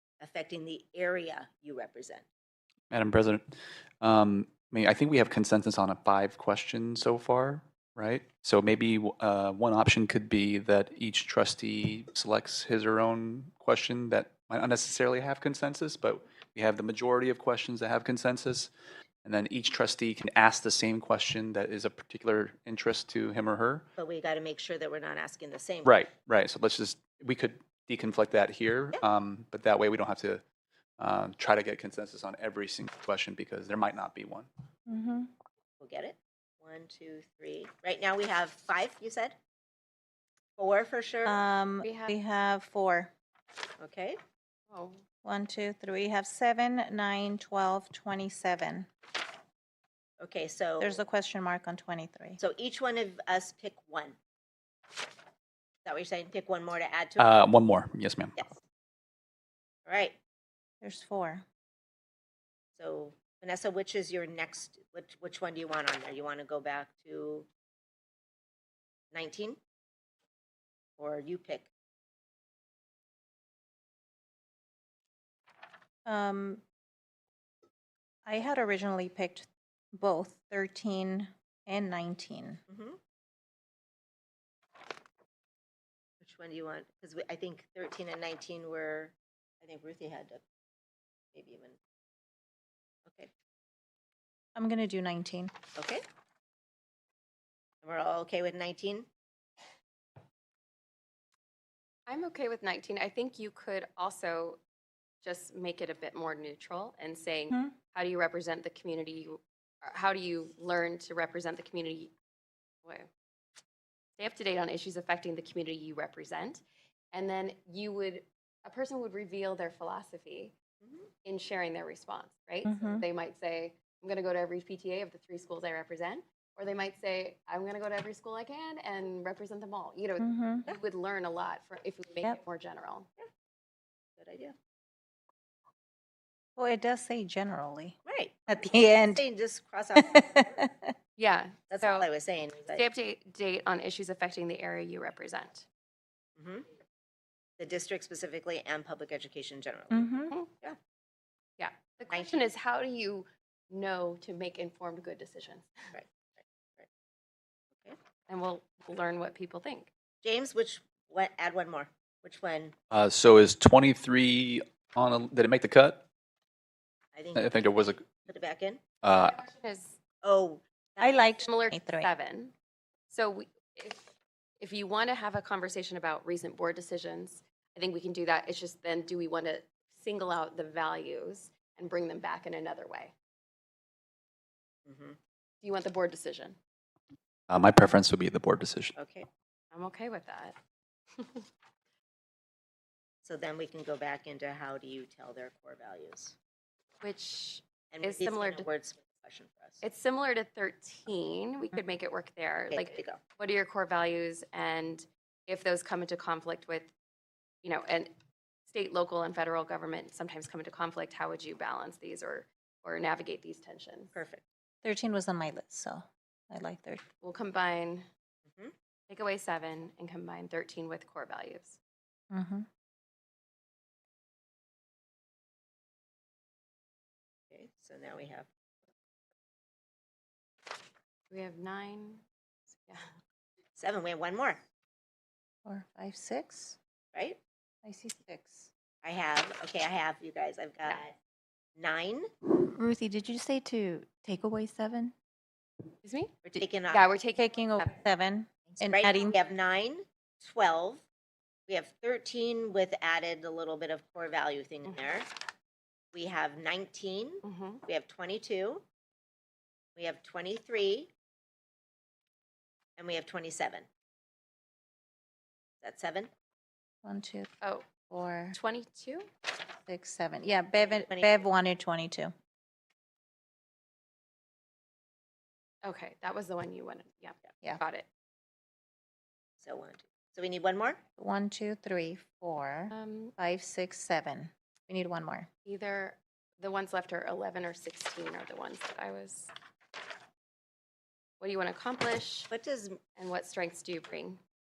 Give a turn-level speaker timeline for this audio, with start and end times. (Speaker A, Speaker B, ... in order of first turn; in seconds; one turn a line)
Speaker A: 0.2-2.2
Speaker B: 2.9-3.4
Speaker B: 4.0-18.7
Speaker B: 19.2-23.8
Speaker A: 24.0-25.9
Speaker B: 25.8-30.4
Speaker B: 31.0-34.5
Speaker C: 34.9-35.3
Speaker A: 35.8-39.4
Speaker A: 40.6-41.4
Speaker C: 41.2-43.1
Speaker D: 41.8-42.1
Speaker A: 43.8-44.2
Speaker D: 44.7-45.0
Speaker C: 45.2-48.9
Speaker A: 50.2-51.0
Speaker C: 50.8-52.4
Speaker A: 52.4-54.2
Speaker A: 55.8-57.4
Speaker B: 57.2-58.3
Speaker A: 58.4-58.6
Speaker A: 59.9-60.2
Speaker C: 60.8-61.4
Speaker A: 62.7-67.5
Speaker A: 69.1-69.6
Speaker A: 71.0-71.7
Speaker C: 76.0-76.6
Speaker C: 78.2-82.6
Speaker A: 82.7-83.0
Speaker A: 86.2-90.4
Speaker A: 91.3-91.8
Speaker A: 93.0-93.3
Speaker C: 94.5-95.5
Speaker A: 95.7-96.0
Speaker A: 97.8-99.1
Speaker D: 102.1-104.6
Speaker D: 105.2-112.1
Speaker D: 114.2-120.5
Speaker D: 121.2-133.1
Speaker C: 122.6-123.0
Speaker C: 130.2-130.7
Speaker A: 134.2-134.5
Speaker C: 136.6-138.0
Speaker A: 138.1-140.7
Speaker C: 138.5-139.2
Speaker C: 140.0-140.9
Speaker D: 141.2-142.1
Speaker A: 141.7-142.8
Speaker D: 142.7-145.7
Speaker A: 146.4-146.7
Speaker A: 147.6-150.8
Speaker C: 149.9-150.3
Speaker D: 151.6-155.8
Speaker A: 152.1-152.4
Speaker A: 155.9-156.9
Speaker D: 158.3-159.9
Speaker A: 160.2-162.7
Speaker B: 162.9-166.0
Speaker A: 167.1-167.6
Speaker B: 167.3-168.1
Speaker A: 168.2-168.8
Speaker B: 169.0-169.4
Speaker D: 169.1-170.0
Speaker A: 170.2-171.3
Speaker C: 171.0-172.1
Speaker D: 171.4-172.5
Speaker D: 173.1-183.1
Speaker A: 184.8-185.2
Speaker D: 185.6-186.6
Speaker B: 187.5-188.9
Speaker A: 188.9-189.3
Speaker D: 189.7-190.6
Speaker D: 191.2-191.5
Speaker A: 193.2-196.3
Speaker D: 197.0-198.7
Speaker A: 197.9-199.8
Speaker D: 199.8-206.9
Speaker A: 202.7-203.2
Speaker D: 207.6-208.1
Speaker D: 208.7-214.1
Speaker A: 214.1-214.4
Speaker C: 214.8-217.0
Speaker D: 217.2-218.0
Speaker D: 219.1-221.8
Speaker C: 222.3-222.7
Speaker A: 227.5-228.5
Speaker D: 231.3-232.2
Speaker D: 232.8-233.1
Speaker A: 233.8-234.6
Speaker C: 235.6-236.8
Speaker A: 237.1-237.4
Speaker C: 237.8-238.7
Speaker A: 239.0-241.2
Speaker A: 241.8-242.3
Speaker E: 242.7-245.1
Speaker D: 246.0-246.3
Speaker A: 246.4-247.1
Speaker D: 246.9-248.0
Speaker C: 247.4-249.3
Speaker A: 248.7-251.0
Speaker A: 251.7-255.3
Speaker A: 256.1-258.8
Speaker D: 257.4-257.8
Speaker A: 259.9-261.1
Speaker A: 263.0-263.9
Speaker A: 265.8-266.3
Speaker C: 267.0-267.5
Speaker C: 268.1-268.6
Speaker D: 268.5-269.3
Speaker C: 269.8-272.3
Speaker A: 270.7-271.4
Speaker D: 275.8-278.1
Speaker A: 279.6-281.0
Speaker C: 281.2-285.5
Speaker D: 282.9-283.3
Speaker D: 285.6-289.5
Speaker D: 291.4-292.5
Speaker A: 292.5-293.0
Speaker D: 293.1-294.4